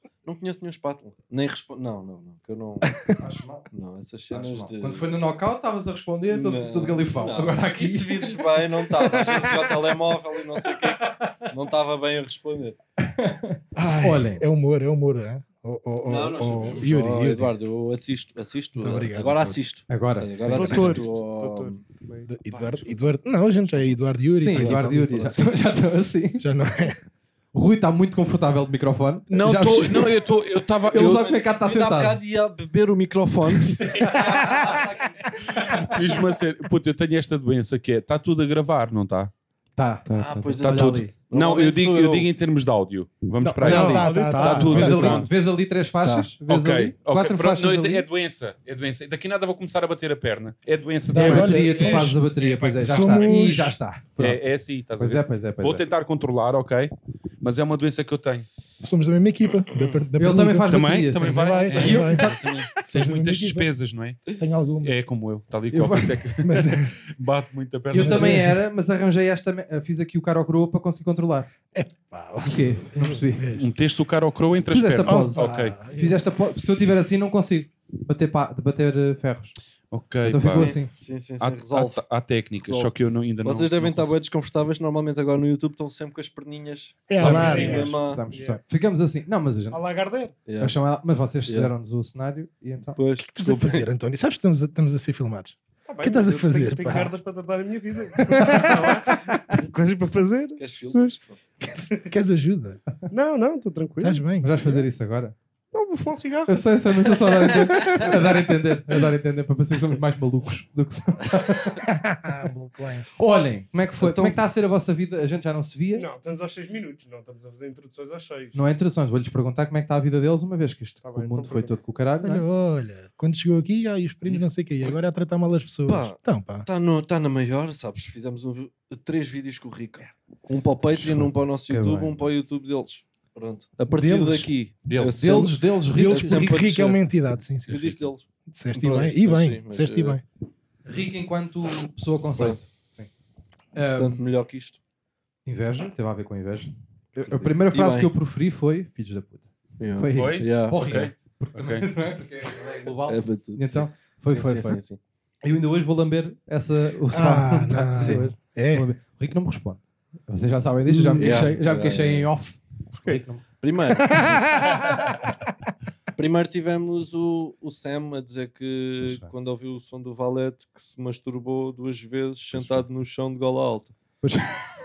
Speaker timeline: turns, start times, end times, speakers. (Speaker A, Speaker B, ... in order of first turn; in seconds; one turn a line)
Speaker A: 0.2-3.0
Speaker B: 3.2-3.7
Speaker A: 3.7-5.1
Speaker B: 4.3-8.4
Speaker A: 6.3-12.8
Speaker C: 9.1-9.7
Speaker B: 13.1-14.4
Speaker C: 13.8-17.5
Speaker A: 16.0-21.9
Speaker C: 18.8-19.6
Speaker B: 19.9-21.1
Speaker D: 20.5-22.3
Speaker C: 22.3-25.6
Speaker A: 22.5-23.1
Speaker A: 23.7-24.0
Speaker B: 24.4-26.4
Speaker A: 24.5-24.8
Speaker C: 26.4-27.0
Speaker B: 27.5-30.3
Speaker E: 29.3-31.3
Speaker B: 30.9-32.2
Speaker A: 30.9-36.0
Speaker E: 33.8-34.2
Speaker B: 33.8-34.7
Speaker E: 35.5-39.3
Speaker B: 35.6-35.9
Speaker B: 39.8-40.5
Speaker D: 40.1-40.4
Speaker A: 40.1-42.3
Speaker E: 40.6-45.3
Speaker B: 43.4-48.1
Speaker C: 43.6-45.3
Speaker D: 43.8-45.0
Speaker E: 46.5-53.4
Speaker C: 51.1-52.2
Speaker B: 51.1-55.9
Speaker C: 52.8-53.8
Speaker E: 54.2-58.5
Speaker C: 58.8-63.7
Speaker B: 60.2-62.7
Speaker E: 60.7-64.3
Speaker A: 62.3-62.6
Speaker C: 64.3-65.0
Speaker E: 64.8-68.5
Speaker B: 65.7-66.2
Speaker C: 66.4-67.0
Speaker B: 67.9-71.5
Speaker C: 68.0-68.6
Speaker C: 71.7-73.7
Speaker B: 72.4-73.5
Speaker E: 73.5-75.8
Speaker B: 74.7-79.5
Speaker C: 75.1-76.2
Speaker E: 79.9-80.8
Speaker B: 80.2-80.9
Speaker A: 80.4-82.0
Speaker E: 81.4-84.2
Speaker A: 82.6-88.2
Speaker C: 87.1-87.9
Speaker E: 87.2-87.7
Speaker B: 87.2-89.8
Speaker D: 87.2-88.6
Speaker D: 89.7-90.3
Speaker A: 90.5-90.7
Speaker B: 90.6-93.0
Speaker A: 91.5-91.7
Speaker A: 93.0-93.9
Speaker C: 93.2-97.1
Speaker D: 95.9-101.2
Speaker C: 98.2-99.0
Speaker A: 100.6-101.4
Speaker C: 101.6-102.8
Speaker D: 103.1-104.3
Speaker C: 104.0-104.5
Speaker B: 104.4-105.3
Speaker D: 105.7-106.5
Speaker B: 106.5-116.1
Speaker C: 107.3-108.2
Speaker C: 111.9-113.0
Speaker A: 114.0-114.4
Speaker D: 115.9-118.6
Speaker B: 118.5-122.5
Speaker D: 121.0-121.7
Speaker C: 122.2-126.7
Speaker E: 124.3-125.0
Speaker A: 125.9-137.0
Speaker B: 130.9-132.2
Speaker B: 133.9-134.5
Speaker E: 134.8-135.2
Speaker B: 135.0-136.8
Speaker C: 135.9-137.8
Speaker E: 137.7-138.0
Speaker A: 137.7-140.2
Speaker C: 138.5-140.2
Speaker B: 140.9-143.1
Speaker B: 143.8-144.2
Speaker A: 143.9-144.8
Speaker B: 145.5-154.8
Speaker A: 147.3-148.1
Speaker A: 149.8-150.8
Speaker E: 150.1-151.9
Speaker A: 152.9-155.0
Speaker B: 155.4-163.4
Speaker C: 157.1-158.8
Speaker A: 157.9-158.2
Speaker C: 160.9-161.5
Speaker A: 161.2-162.3
Speaker A: 163.6-164.5
Speaker C: 164.0-164.8
Speaker A: 166.2-173.9
Speaker B: 169.0-169.3
Speaker B: 172.5-172.8
Speaker B: 174.2-174.7